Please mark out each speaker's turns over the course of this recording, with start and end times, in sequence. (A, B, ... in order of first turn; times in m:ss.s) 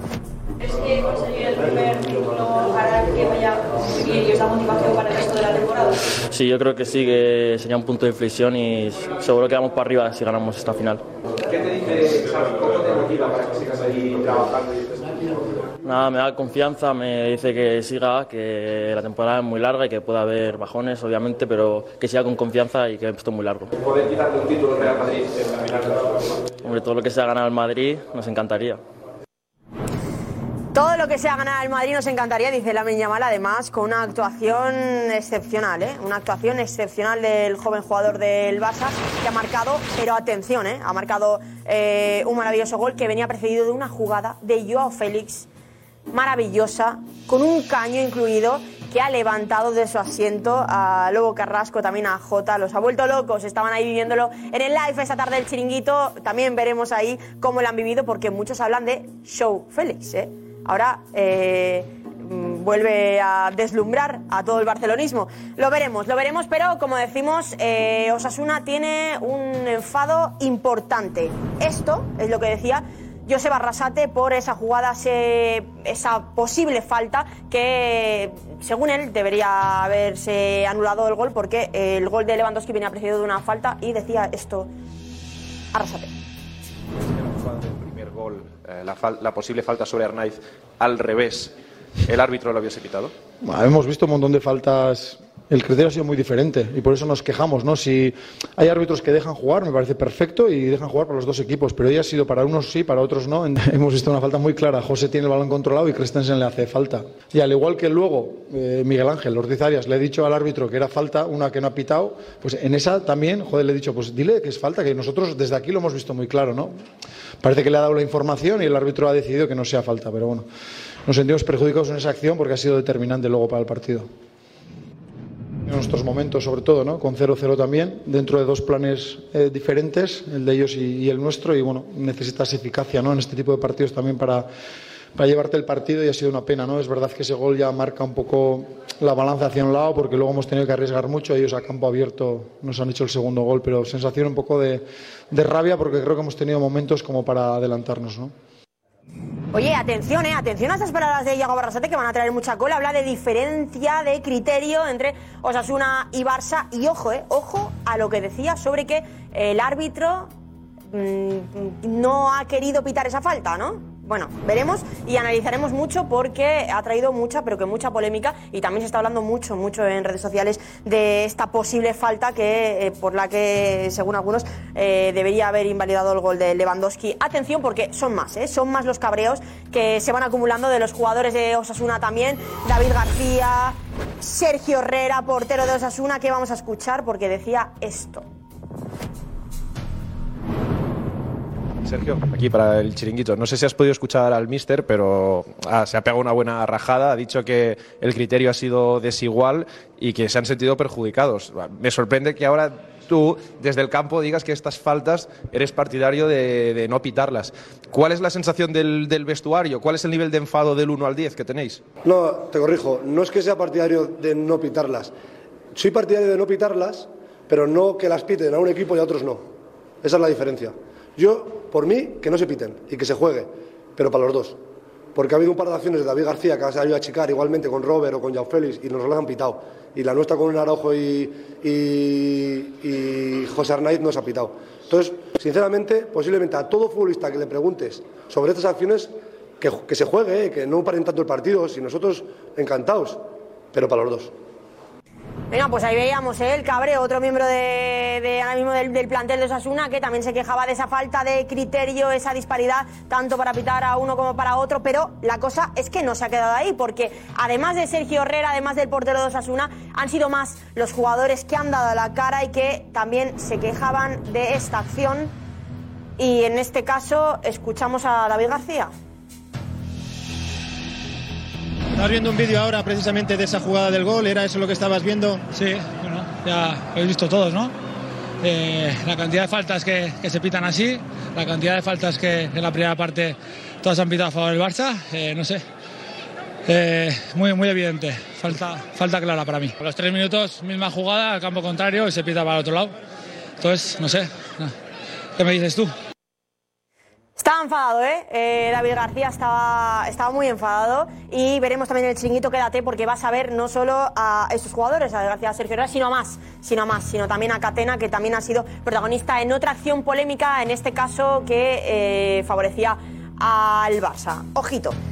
0:00.6-0:06.0 A
0:06.3-0:11.0 B
0:11.4-0:15.1 C
0:15.8-0:23.7 B
0:23.8-0:26.2 C
0:26.6-0:28.8 B
0:30.7-0:45.5 D
0:46.1-1:24.7 D
1:25.7-1:26.1 D
1:27.0-1:31.5 C
1:32.0-1:33.1 C
1:33.4-1:56.7 E
1:57.4-2:00.5 E
2:01.0-2:04.1 E
2:05.6-2:14.5 E
2:15.1-2:28.3 E
2:29.5-2:40.3 D
2:40.9-3:08.2 D
3:11.8-3:31.8 C
3:32.0-3:35.1 F
3:35.7-3:39.4 F
3:40.0-3:44.6 F
3:45.1-4:03.2 F
4:03.7-4:04.3 F
4:05.5-4:25.3 D
4:26.2-4:28.9 D
4:32.6-4:33.8 G
4:34.3-4:35.4 G
4:35.5-4:37.7 H
4:38.4-4:45.6 H
4:46.6-4:52.9 H
4:53.6-4:54.7 H
4:55.4-4:55.9 H
4:57.4-5:15.0 D